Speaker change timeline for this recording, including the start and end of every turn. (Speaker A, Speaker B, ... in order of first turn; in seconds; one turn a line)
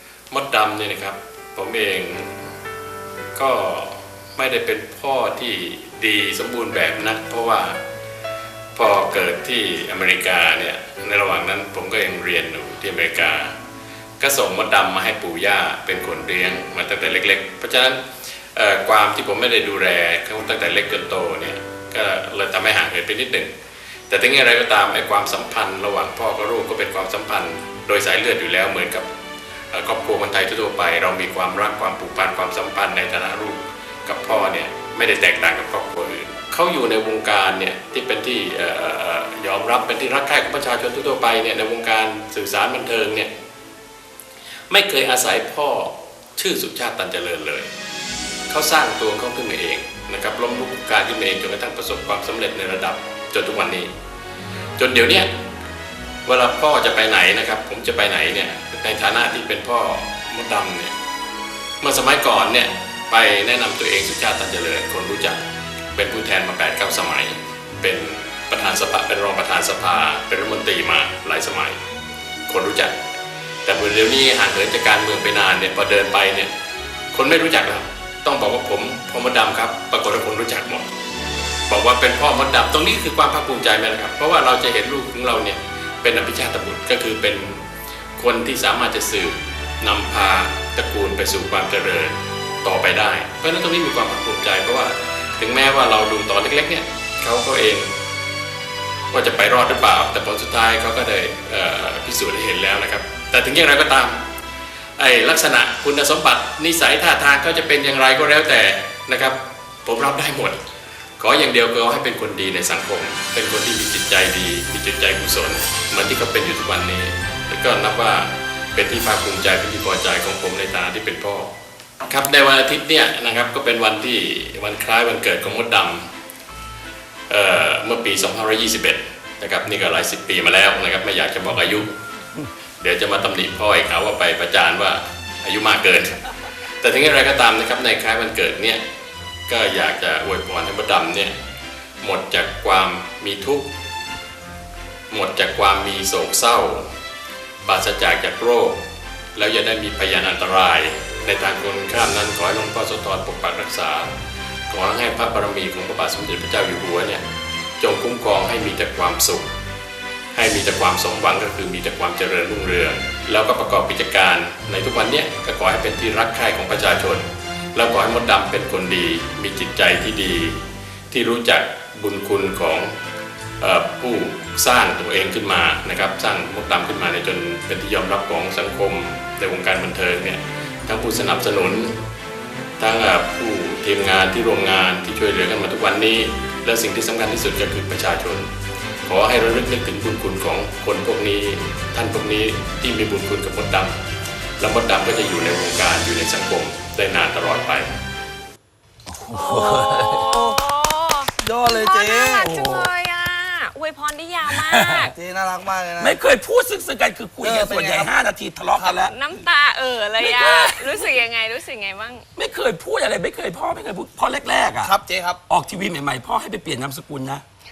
Speaker A: 0.3-2.3
Speaker A: 3.3-7.8
Speaker A: 8.7-13.6
Speaker A: 14.2-18.0
Speaker A: 18.5-23.5
Speaker A: 24.1-29.1
Speaker A: 29.7-43.3
Speaker A: 44.7-47.7
Speaker A: 48.5-53.9
Speaker A: 54.8-55.3
Speaker A: 56.2-60.9
Speaker A: 61.8-65.4
Speaker A: 65.9-71.8
Speaker A: 72.5-72.9
Speaker A: 73.6-76.5
Speaker A: 77.1-80.8
Speaker A: 81.7-87.6
Speaker A: 88.2-97.9
Speaker A: 99.1-104.2
Speaker A: 105.0-110.6
Speaker A: 111.2-121.5
Speaker A: 122.0-126.1
Speaker A: 127.3-131.9
Speaker A: 132.8-136.2
Speaker A: 136.8-138.8
Speaker A: 139.5-141.3
Speaker A: 142.0-143.7
Speaker A: 145.1-146.8
Speaker A: 147.6-148.8
Speaker A: 149.3-154.1
Speaker A: 154.7-157.2
Speaker A: 157.8-159.5
Speaker A: 160.3-170.6
Speaker A: 171.1-172.9
Speaker A: 173.6-181.9
Speaker A: 182.8-188.5
Speaker A: 189.0-193.9
Speaker A: 194.6-197.9
Speaker B: 199.1-200.3
Speaker C: 199.3-200.6
Speaker D: 199.6-205.1
Speaker C: 201.4-202.5
Speaker B: 202.3-202.9
Speaker B: 204.4-205.1
Speaker C: 205.1-206.2
Speaker B: 206.0-209.1
Speaker C: 207.4-208.1
Speaker C: 208.7-209.0
Speaker D: 208.9-212.2
Speaker B: 210.2-211.1
Speaker B: 212.3-214.9
Speaker C: 214.8-215.4
Speaker B: 215.5-217.4